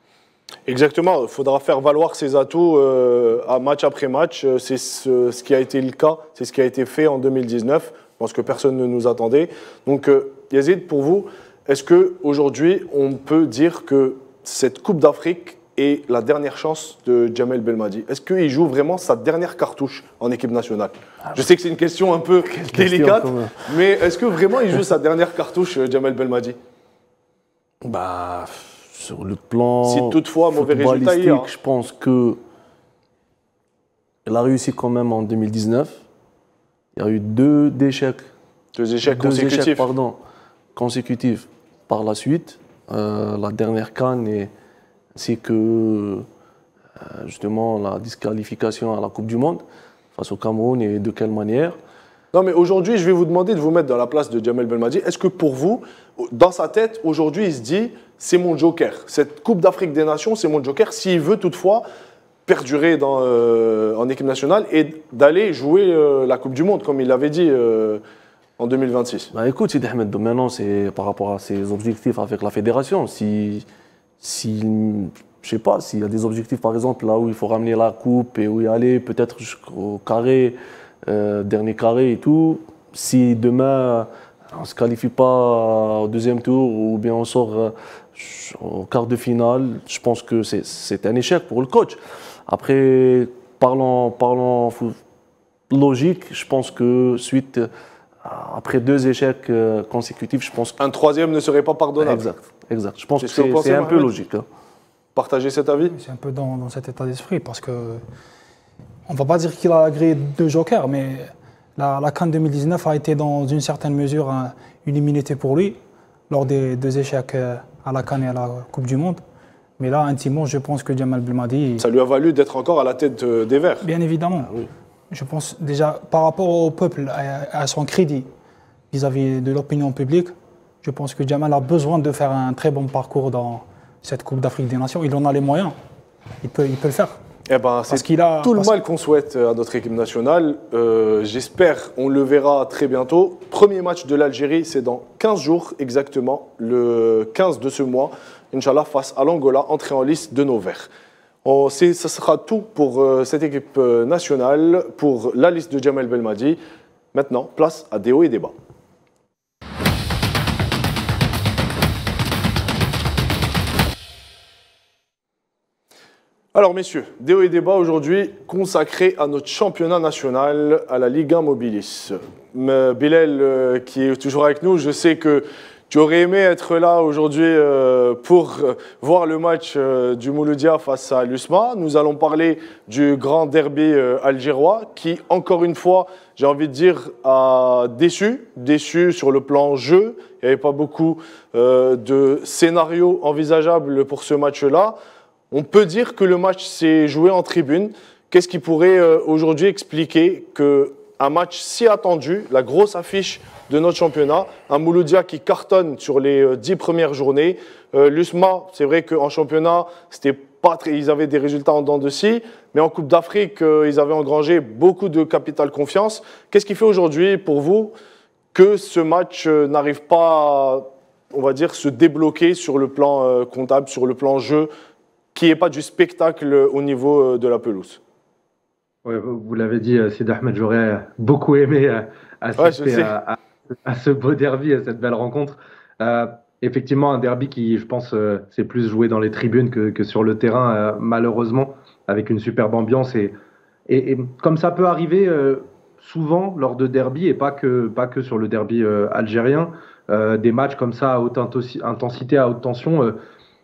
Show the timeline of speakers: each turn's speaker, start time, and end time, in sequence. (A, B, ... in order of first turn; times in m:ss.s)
0:00.7-0:26.6 A
0:22.5-0:23.8 B
0:27.8-0:32.4 B
0:29.8-0:31.5 A
0:34.2-0:36.0 B
0:36.9-0:38.3 B
0:38.7-0:39.8 A
0:39.1-0:40.2 B
0:40.7-0:44.5 B
0:45.1-0:46.2 B
0:47.0-0:49.6 B
0:50.1-0:51.8 B
0:52.3-1:01.8 A
1:02.4-1:08.0 A
1:08.6-1:09.3 A
1:09.3-1:13.6 B
1:14.2-1:35.0 B
1:35.7-1:37.7 B
1:38.2-1:40.8 B
1:40.8-1:42.2 A
1:42.0-1:44.4 B
1:43.2-1:44.1 A
1:45.1-1:45.9 A
1:45.8-1:48.0 C
1:49.1-1:55.8 C
1:56.3-1:59.2 C
1:59.8-2:01.9 C
2:01.8-2:03.8 A
2:03.8-2:04.5 C
2:04.4-2:04.7 B
2:05.1-2:08.3 C
2:08.9-2:10.3 C
2:10.8-2:15.7 C
2:16.4-2:17.2 C
2:17.5-2:30.9 A
2:17.9-2:18.8 C
2:31.4-2:36.6 A
2:37.1-2:38.5 A
2:46.5-3:15.0 A
3:15.5-3:37.9 A
3:38.5-3:44.7 A
3:45.3-3:48.0 A
3:49.0-4:03.4 D
3:52.6-3:53.1 A
4:03.9-4:13.2 D